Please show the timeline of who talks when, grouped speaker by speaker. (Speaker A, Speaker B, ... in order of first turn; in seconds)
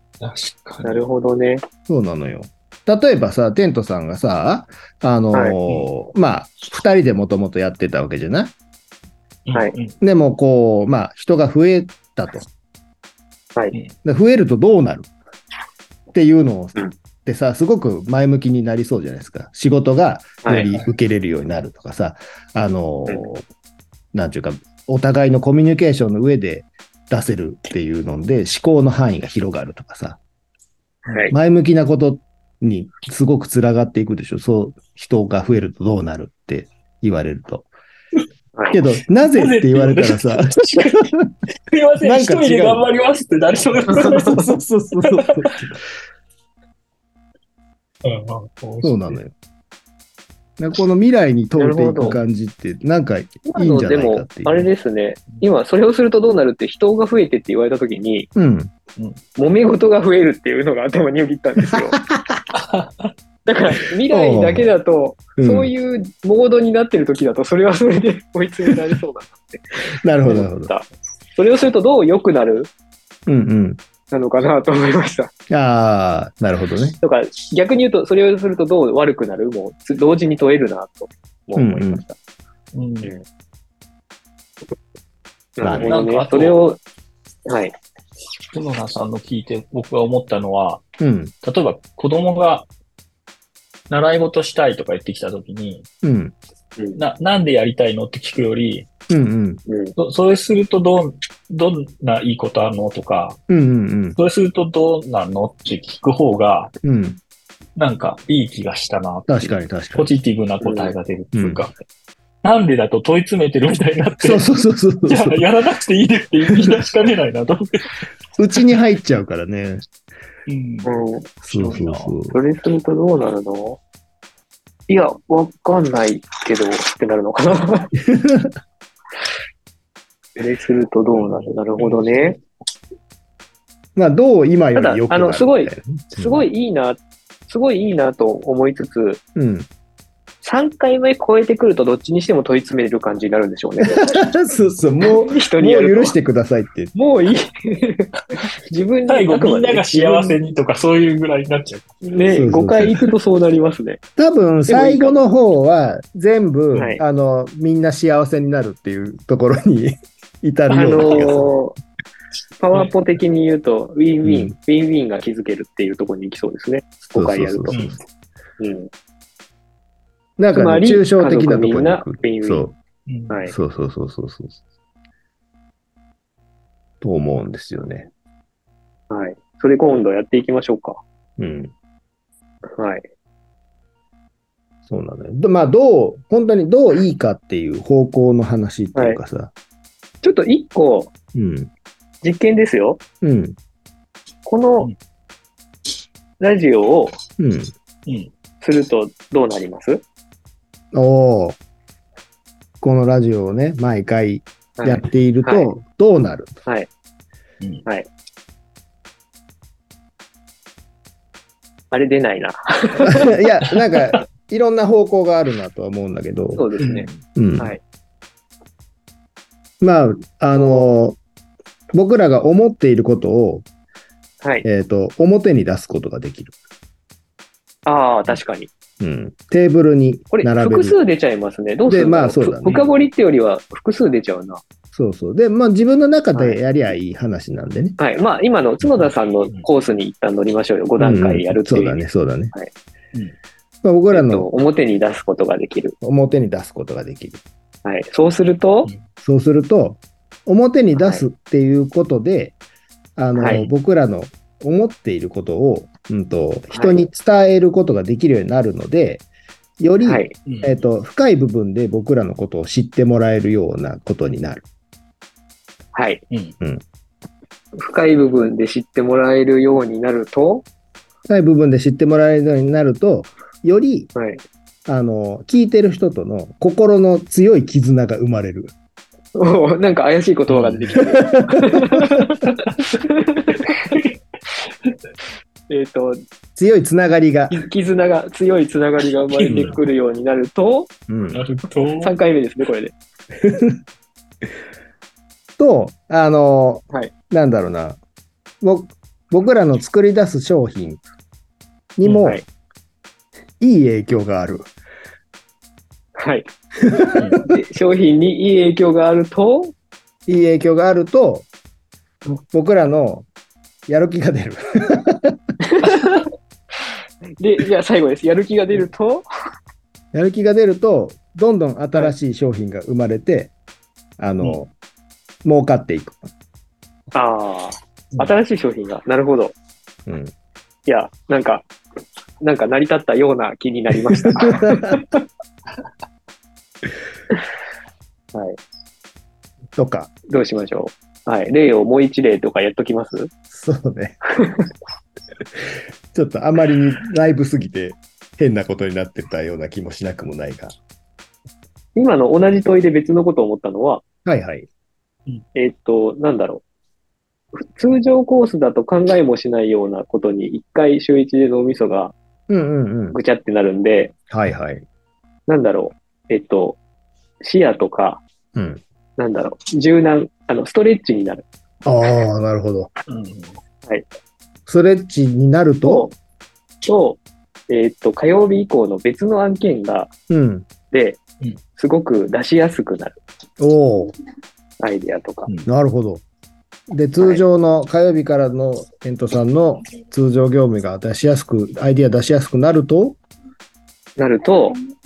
Speaker A: 0.2-1.0, 9.5-9.9, 39.3-41.1, 41.7-44.5, 45.0-45.5, 48.0-49.2, 62.5-63.1, 82.7-83.1, 85.8-86.6, 88.5-90.8, 91.4-92.7, 93.9-95.9, 97.0-98.9, 100.0-103.4, 104.2-106.7, 107.8-111.7, 112.4-114.5, 115.1-117.9, 120.5-120.9, 121.5-122.2, 131.2-132.1, 149.1-151.9, 167.7-168.0, 173.1-173.4, 216.8-217.2, 238.8-239.7, 260.4-260.8, 280.5-281.0, 289.4-289.8, 291.3-292.1, 307.2-307.4, 373.1-373.6
Speaker B: 0.8-1.6, 20.4-20.7, 31.1-31.3, 51.6-52.2, 53.5-58.3, 59.4-62.0, 63.5-72.7, 74.1-75.3, 77.0-82.2, 85.6-86.8, 87.5-87.7, 99.7-100.0, 110.6-110.9, 120.8-121.3, 122.3-123.8, 124.9-127.9, 130.4-132.4, 134.8-139.2, 140.4-144.2, 145.0-146.2, 146.9-150.4, 152.0-154.0, 154.7-155.2, 156.7-157.0, 160.7-161.8, 162.6-167.8, 168.6-168.9, 170.5-172.7, 179.1-181.0, 182.8-183.1, 190.2-191.1, 192.2-193.0, 194.4-194.9, 196.4-197.2, 198.6-200.0, 204.8-205.7, 211.9-213.3, 216.6-217.8, 220.6-220.9, 227.9-228.7, 230.3-234.6, 236.3-236.6, 238.0-242.7, 244.1-246.0, 247.8-248.9, 251.0-251.3, 253.4-253.6, 256.7-257.0, 260.0-260.3, 265.9-266.2, 267.8-270.7, 274.1-274.4, 279.4-284.0, 285.7-286.2, 287.5-290.9, 292.0-292.9, 306.2-306.5, 307.4-309.8, 315.6-316.3, 317.4-319.3, 327.1-329.5, 330.9-331.7, 332.4-335.2, 340.3-343.3, 344.4-344.7, 352.0-354.0, 355.6-356.6, 357.6-362.1, 363.1-364.1, 365.5-366.8, 367.4-368.2, 369.2-371.4, 375.8-376.1, 376.8-380.1, 380.9-381.2, 381.8-383.2, 384.8-385.5, 394.2-394.8
Speaker C: 1.9-8.5, 10.0-12.4, 14.0-15.1, 16.1-23.5, 24.1-30.2, 31.3-37.7, 38.7-41.3, 42.0-42.9, 43.9-45.8, 48.8-49.3, 50.6-54.7, 58.4-58.7, 61.7-62.4, 64.1-64.7, 65.4-65.7, 70.0-70.7, 73.3-73.8, 75.5-77.0, 81.6-82.0, 85.6-85.9, 91.0-91.3, 96.0-96.3, 99.1-99.6, 103.5-104.2, 106.8-107.2, 109.3-110.1, 111.3-111.6, 114.2-115.4, 116.5-116.8, 118.4-119.8, 121.4-122.4, 127.9-128.5, 134.0-136.5, 139.3-139.7, 143.9-146.9, 152.3-153.0, 154.2-161.6, 164.2-164.6, 167.1-168.0, 170.4-172.8, 173.5-174.6, 177.0-178.1, 181.4-181.7, 184.9-189.5, 191.3-191.7, 193.2-193.6, 197.4-197.7, 200.9-201.6, 202.8-206.5, 213.1-216.7, 217.2-217.8, 219.8-221.2, 221.9-223.7, 224.7-226.5, 229.0-231.0, 231.9-232.8, 234.9-238.0, 241.0-242.5, 243.8-244.5, 246.0-247.4, 249.2-252.6, 253.2-259.2, 259.8-264.6, 271.3-274.1, 274.9-278.7, 281.0-282.1, 286.6-287.6, 291.1-291.4, 293.4-293.8, 295.6-298.0, 298.6-301.0, 302.0-302.4, 303.6-304.7, 306.8-307.5, 310.3-311.5, 312.5-313.3, 313.9-315.4, 320.1-323.5, 324.2-324.7, 325.4-326.3, 330.1-330.3, 334.2-335.0, 339.8-340.1, 343.5-344.2, 346.1-350.8, 354.2-354.7, 362.5-363.2, 364.3-364.9, 368.6-368.8, 371.9-372.9, 374.7-376.1, 380.3-380.7, 383.6-384.1, 385.7-386.2, 386.9-393.2